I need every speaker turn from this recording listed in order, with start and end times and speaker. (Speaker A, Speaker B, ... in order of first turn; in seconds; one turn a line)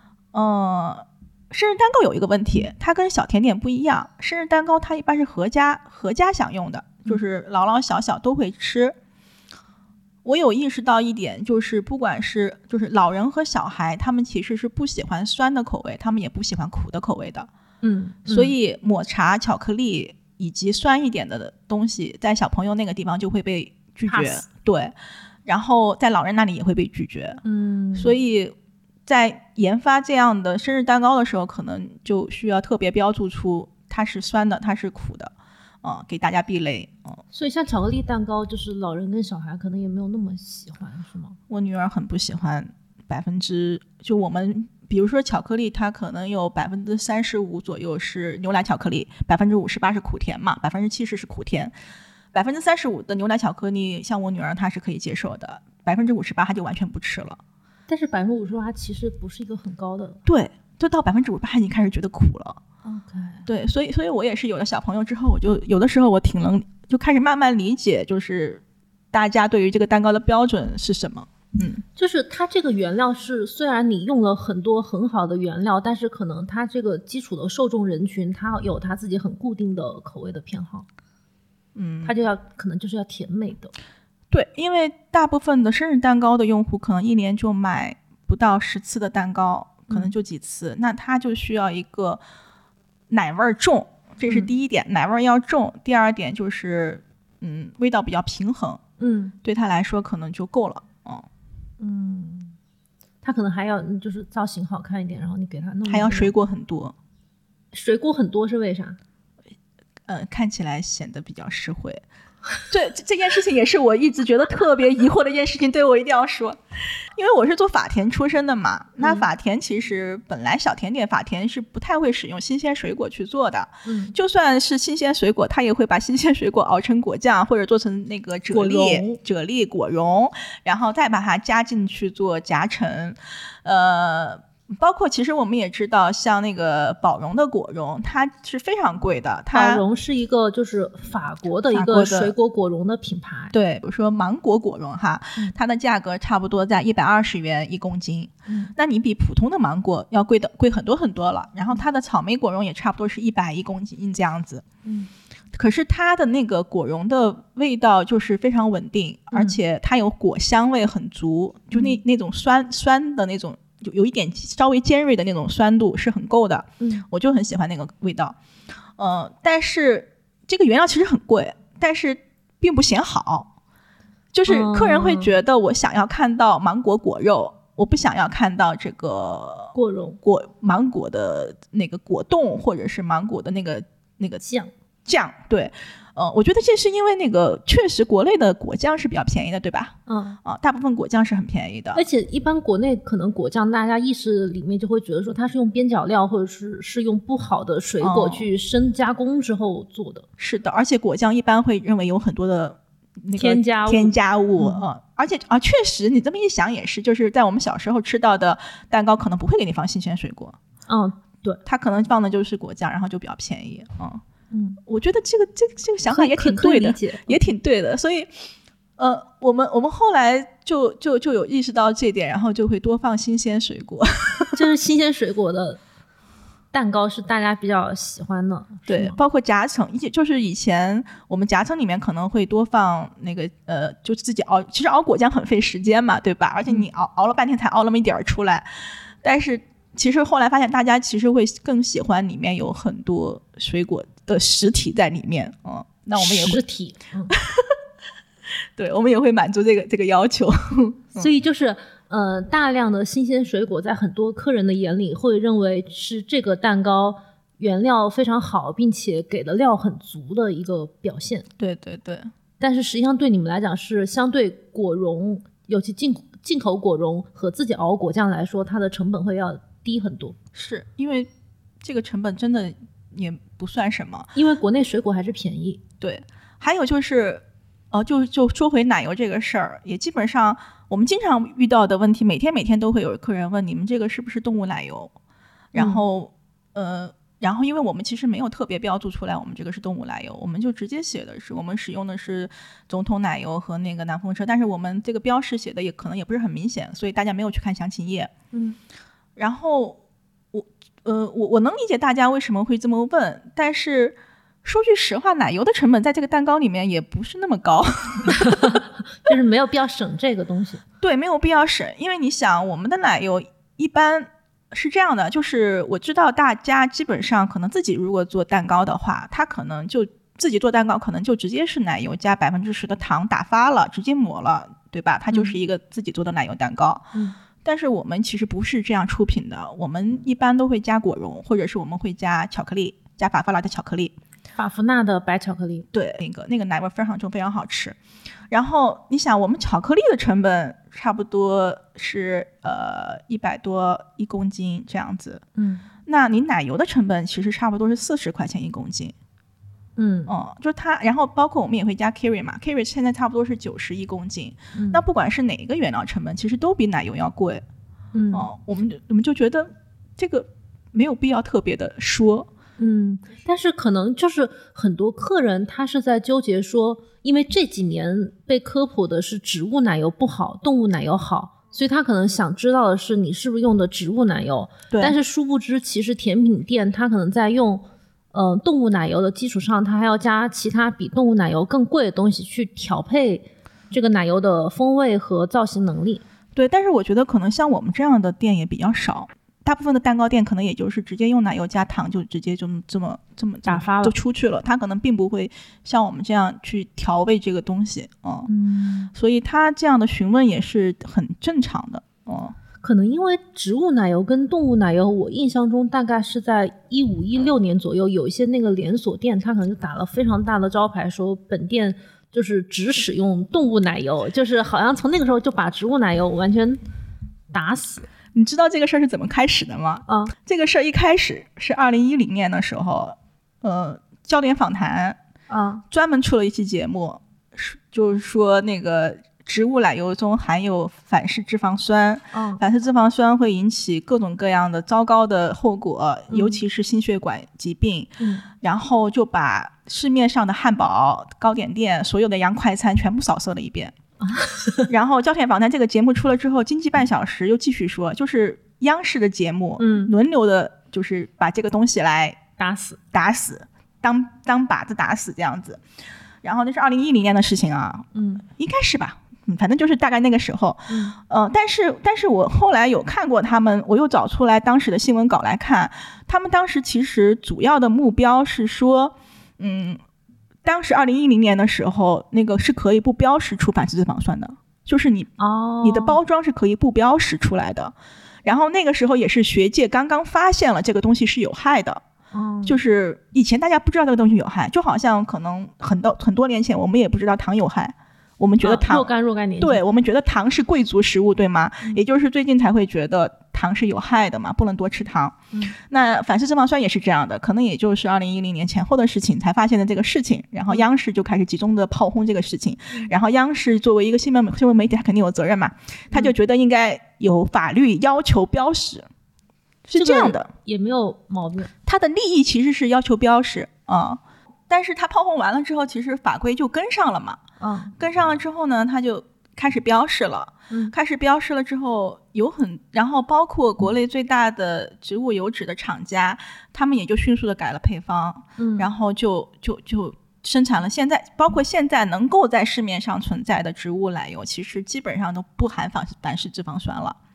Speaker A: 0.3-8.9
Speaker A: 10.2-17.5
Speaker B: 17.8-18.5
Speaker A: 18.3-27.4
Speaker B: 24.1-24.4
Speaker B: 27.4-28.2
Speaker A: 27.9-28.5
Speaker A: 29.1-37.2
Speaker B: 37.3-41.4
Speaker A: 41.5-51.7
Speaker A: 52.3-57.4
Speaker B: 57.9-60.2
Speaker A: 60.2-62.6
Speaker B: 62.9-63.4
Speaker A: 63.4-71.8
Speaker B: 72.0-80.9
Speaker A: 81.7-82.1
Speaker B: 82.0-83.7
Speaker A: 84.3-92.2
Speaker A: 93.1-98.8
Speaker B: 94.3-94.5
Speaker B: 99.0-99.3
Speaker A: 99.4-101.3
Speaker B: 101.8-102.5
Speaker B: 103.2-106.3
Speaker A: 105.8-106.9
Speaker B: 107.7-109.0
Speaker A: 110.0-112.0
Speaker A: 112.7-139.8
Speaker B: 119.0-119.3
Speaker B: 123.8-124.2
Speaker B: 128.5-129.2
Speaker B: 139.5-143.5
Speaker A: 141.7-142.3
Speaker A: 143.5-154.6
Speaker B: 148.5-148.7
Speaker B: 154.8-155.1
Speaker A: 155.5-168.4
Speaker B: 159.3-159.6
Speaker B: 161.7-162.0
Speaker B: 166.8-167.1
Speaker A: 169.0-173.5
Speaker A: 174.3-184.4
Speaker B: 174.5-175.3
Speaker B: 179.7-180.2
Speaker B: 184.4-184.7
Speaker A: 185.1-192.0
Speaker B: 190.1-190.4
Speaker B: 191.9-200.2
Speaker A: 198.0-198.5
Speaker A: 200.4-210.6
Speaker B: 203.4-204.8
Speaker B: 210.9-211.6
Speaker A: 211.6-214.2
Speaker B: 214.5-214.8
Speaker A: 214.9-218.3
Speaker B: 216.1-217.5
Speaker A: 219.0-224.6
Speaker B: 224.5-225.8
Speaker B: 226.7-229.2
Speaker A: 228.9-238.7
Speaker A: 239.2-246.6
Speaker B: 246.2-247.4
Speaker A: 247.3-247.7
Speaker A: 248.8-251.3
Speaker B: 251.2-261.5
Speaker A: 261.6-262.3
Speaker B: 262.6-270.4
Speaker A: 270.5-271.3
Speaker A: 271.8-274.3
Speaker B: 274.4-275.8
Speaker A: 276.0-285.1
Speaker A: 285.7-298.3
Speaker B: 285.8-286.0
Speaker B: 298.5-298.8
Speaker A: 299.4-300.0
Speaker A: 300.5-308.8
Speaker B: 308.3-310.8
Speaker A: 311.0-327.0
Speaker B: 325.3-325.6
Speaker A: 327.6-334.1
Speaker B: 334.6-335.9
Speaker A: 335.9-338.0
Speaker A: 338.5-345.4
Speaker B: 345.6-345.9
Speaker A: 346.1-349.1
Speaker B: 350.0-350.3
Speaker A: 350.3-357.6
Speaker B: 354.7-355.0
Speaker B: 358.1-358.5
Speaker A: 358.3-362.5
Speaker B: 362.8-386.2
Speaker A: 386.5-398.5
Speaker B: 393.6-394.1
Speaker B: 398.5-399.1
Speaker A: 399.1-402.6
Speaker B: 402.8-416.8
Speaker B: 417.5-418.1
Speaker A: 418.3-425.2
Speaker B: 420.1-420.4
Speaker B: 425.5-425.8
Speaker A: 425.9-443.9
Speaker B: 432.3-432.6
Speaker B: 436.3-436.6
Speaker B: 438.2-438.4
Speaker B: 444.2-444.9
Speaker A: 444.9-452.4
Speaker B: 449.8-450.1
Speaker B: 452.6-453.0
Speaker A: 453.1-455.8
Speaker A: 456.4-470.0
Speaker B: 458.1-458.4
Speaker B: 460.9-461.2
Speaker A: 470.6-482.0
Speaker B: 475.4-476.2
Speaker B: 482.3-482.8
Speaker A: 482.6-489.1
Speaker B: 488.6-489.8
Speaker A: 489.6-509.1
Speaker A: 509.9-510.5
Speaker B: 509.9-511.7
Speaker A: 511.9-517.4
Speaker B: 517.6-517.9
Speaker A: 518.0-537.2
Speaker B: 528.6-528.9